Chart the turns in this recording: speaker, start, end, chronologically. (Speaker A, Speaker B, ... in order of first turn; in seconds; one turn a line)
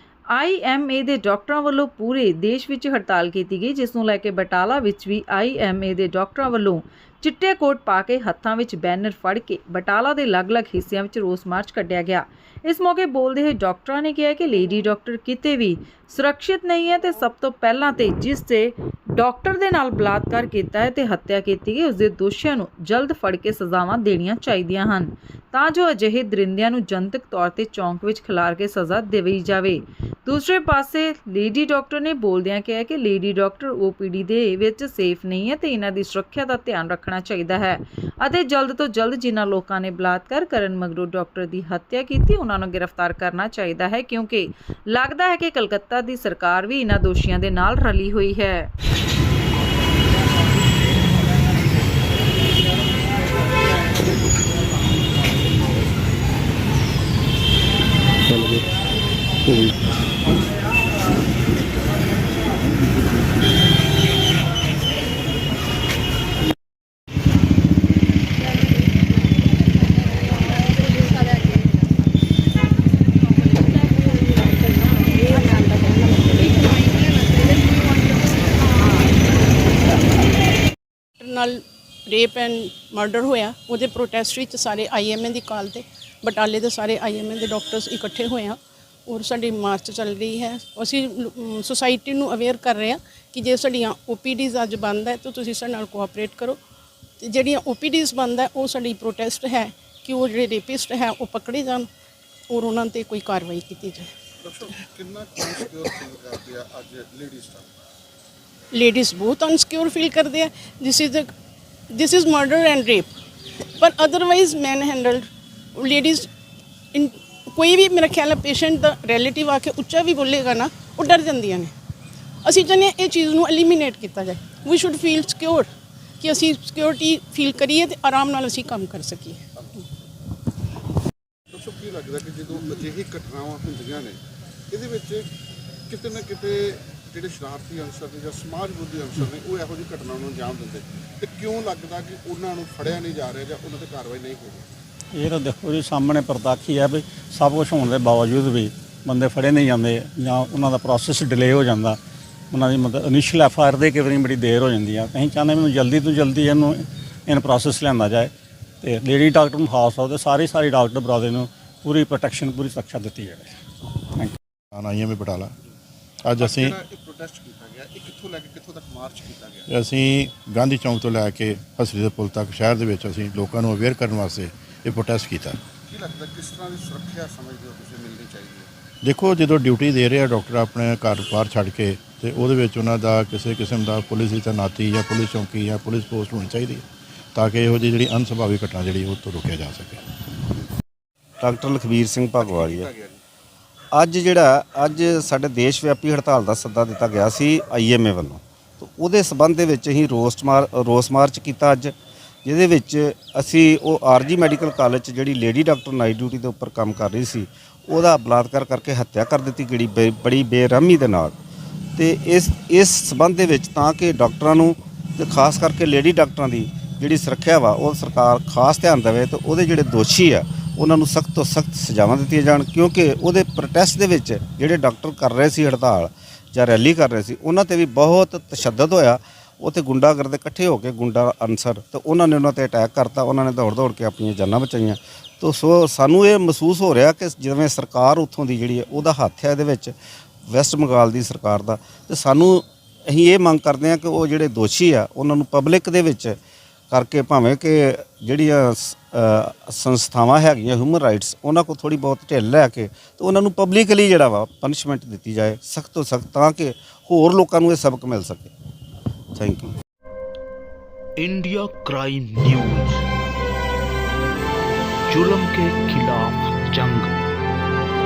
Speaker A: 0.3-48.7
Speaker B: 75.3-76.7
Speaker B: 81.2-96.6
Speaker B: 97.2-101.9
Speaker B: 102.5-104.1
Speaker C: 104.4-107.7
Speaker B: 108.7-111.3
Speaker B: 111.9-113.1
Speaker B: 113.8-116.3
Speaker B: 116.9-121.7
Speaker B: 122.4-125.7
Speaker B: 126.2-129.4
Speaker C: 131.5-135.3
Speaker C: 135.9-144.7
Speaker D: 145.1-152.0
Speaker D: 152.5-158.3
Speaker D: 158.8-163.6
Speaker E: 164.7-165.5
Speaker E: 166.2-166.8
Speaker C: 166.4-169.7
Speaker E: 169.7-175.6
Speaker C: 175.9-178.7
Speaker E: 179.0-190.0
Speaker F: 191.4-192.9
Speaker C: 192.4-193.2
Speaker F: 193.9-211.4
Speaker F: 211.9-239.9
Speaker F: 240.5-246.4
Speaker F: 246.9-258.5
Speaker F: 259.3-259.8
Speaker G: 261.2-263.1
Speaker G: 265.1-267.1